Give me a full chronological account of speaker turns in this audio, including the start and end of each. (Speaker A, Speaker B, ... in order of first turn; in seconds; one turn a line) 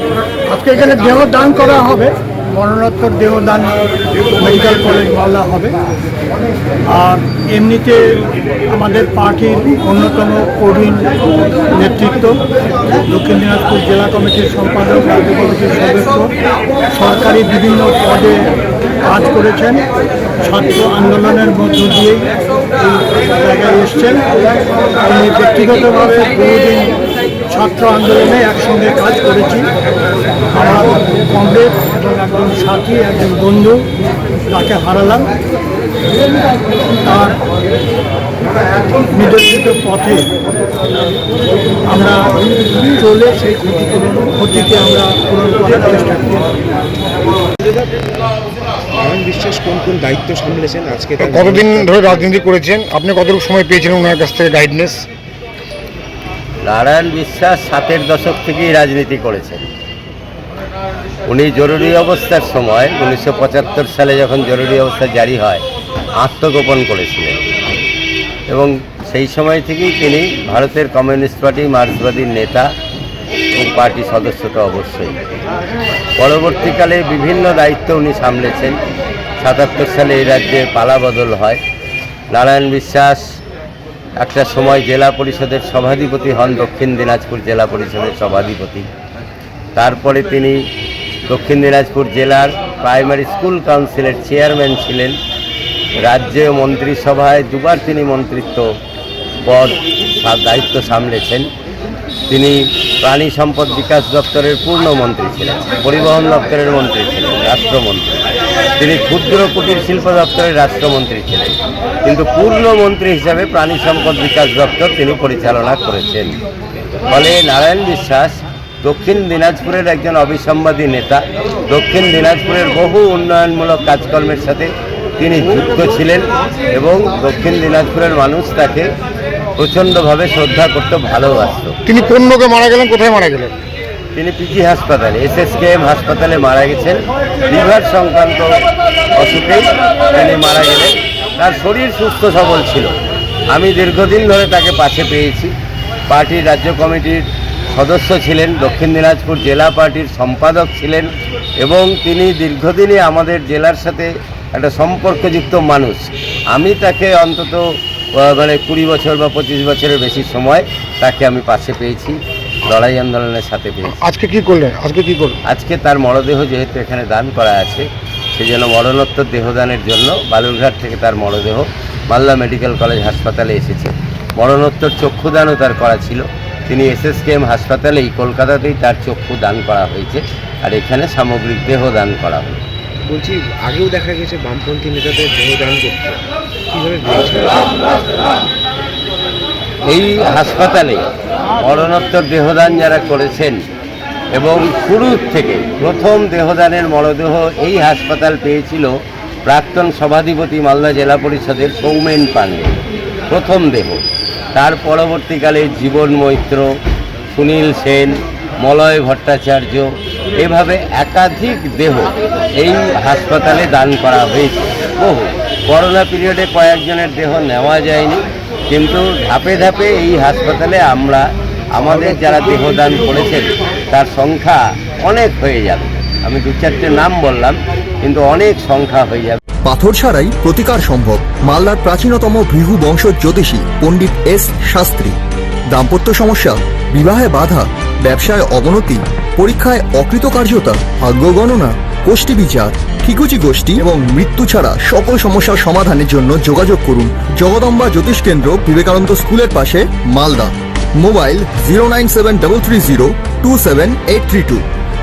Speaker A: 0.5-3.8
Speaker A: 4.4-5.7
Speaker A: 6.9-11.2
Speaker A: 11.7-16.3
Speaker A: 16.9-19.8
Speaker A: 20.4-26.9
Speaker A: 27.5-29.7
Speaker A: 30.5-33.9
Speaker A: 34.5-35.3
Speaker A: 37.0-37.4
Speaker A: 39.1-40.2
Speaker A: 41.9-46.5
Speaker B: 48.9-52.3
Speaker C: 51.2-55.0
Speaker D: 56.6-59.6
Speaker D: 61.2-65.6
Speaker D: 66.1-67.4
Speaker D: 68.5-72.7
Speaker D: 73.5-75.2
Speaker D: 76.2-78.8
Speaker D: 79.4-81.6
Speaker D: 82.3-83.2
Speaker D: 84.2-88.9
Speaker D: 89.8-90.6
Speaker D: 91.3-95.2
Speaker D: 96.0-98.7
Speaker D: 99.4-101.5
Speaker D: 102.3-108.1
Speaker D: 108.8-116.4
Speaker D: 117.1-128.9
Speaker D: 129.6-131.8
Speaker C: 131.8-133.5
Speaker D: 134.1-138.6
Speaker D: 139.1-142.9
Speaker D: 143.5-145.5
Speaker D: 146.1-164.0
Speaker C: 163.9-165.3
Speaker D: 165.4-182.6
Speaker B: 183.1-186.2
Speaker B: 186.7-188.0
Speaker D: 189.8-191.1
Speaker D: 191.6-193.6
Speaker D: 194.3-202.8
Speaker D: 203.3-204.0
Speaker D: 204.5-206.7
Speaker D: 207.3-229.4
Speaker E: 229.6-235.2
Speaker E: 235.7-254.6